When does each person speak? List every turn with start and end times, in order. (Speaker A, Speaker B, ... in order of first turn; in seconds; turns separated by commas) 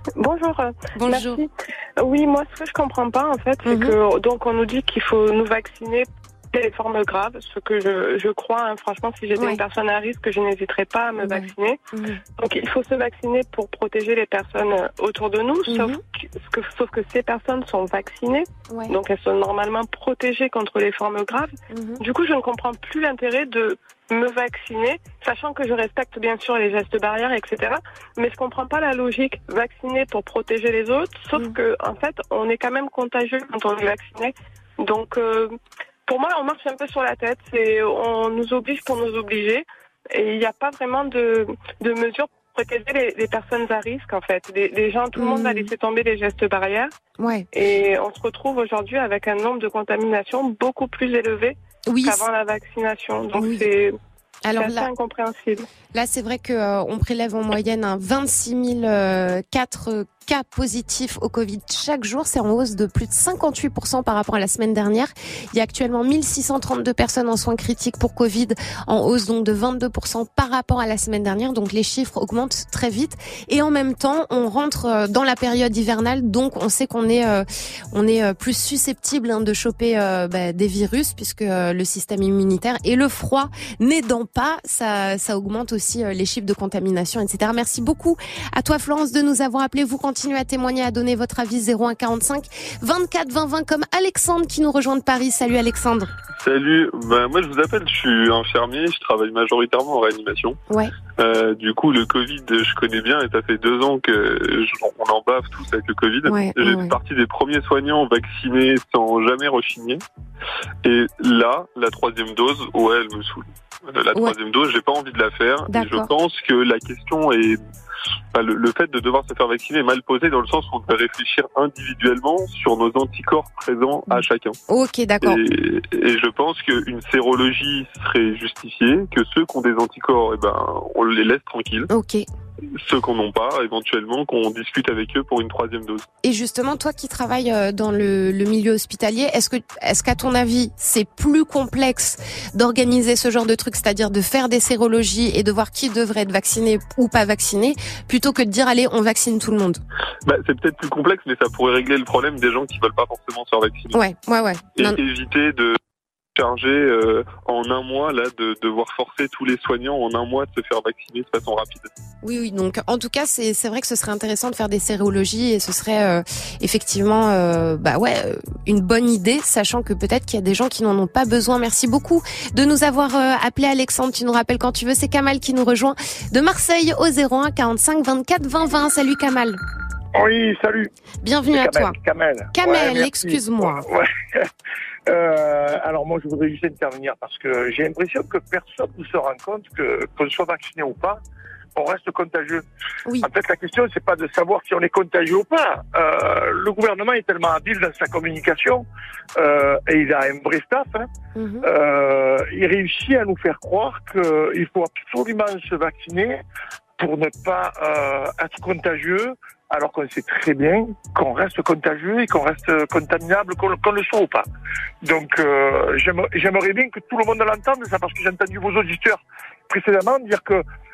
Speaker A: 0.1-11.8, Speaker B: 0.9-1.4, Speaker B: 3.6-4.0, Speaker B: 11.2-12.2, Speaker A: 12.4-35.5, Speaker B: 15.7-16.0, Speaker B: 21.7-22.0, Speaker A: 36.1-46.9, Speaker B: 45.1-45.7, Speaker B: 47.2-47.5, Speaker A: 47.5-54.0, Speaker B: 51.9-52.2, Speaker B: 53.3-53.7, Speaker B: 54.4-54.9, Speaker A: 54.5-55.7, Speaker B: 55.9-96.1, Speaker C: 96.4-100.6, Speaker C: 101.2-110.0, Speaker B: 106.3-106.9, Speaker C: 110.8-117.6, Speaker B: 115.7-116.1, Speaker C: 118.3-124.5, Speaker B: 124.1-125.4, Speaker C: 125.2-131.9, Speaker B: 131.9-132.2, Speaker C: 132.8-136.0, Speaker B: 136.2-149.8, Speaker C: 150.2-154.0, Speaker B: 153.9-155.0, Speaker C: 154.8-155.8, Speaker C: 156.3-161.9, Speaker B: 162.2-179.6, Speaker D: 180.1-180.9, Speaker B: 181.2-181.9, Speaker D: 181.5-184.5, Speaker B: 182.5-183.8, Speaker D: 185.1-191.2, Speaker D: 191.8-192.6, Speaker D: 193.2-201.1, Speaker B: 201.3-201.7, Speaker D: 201.6-206.4, Speaker D: 207.0-214.4, Speaker D: 215.0-220.6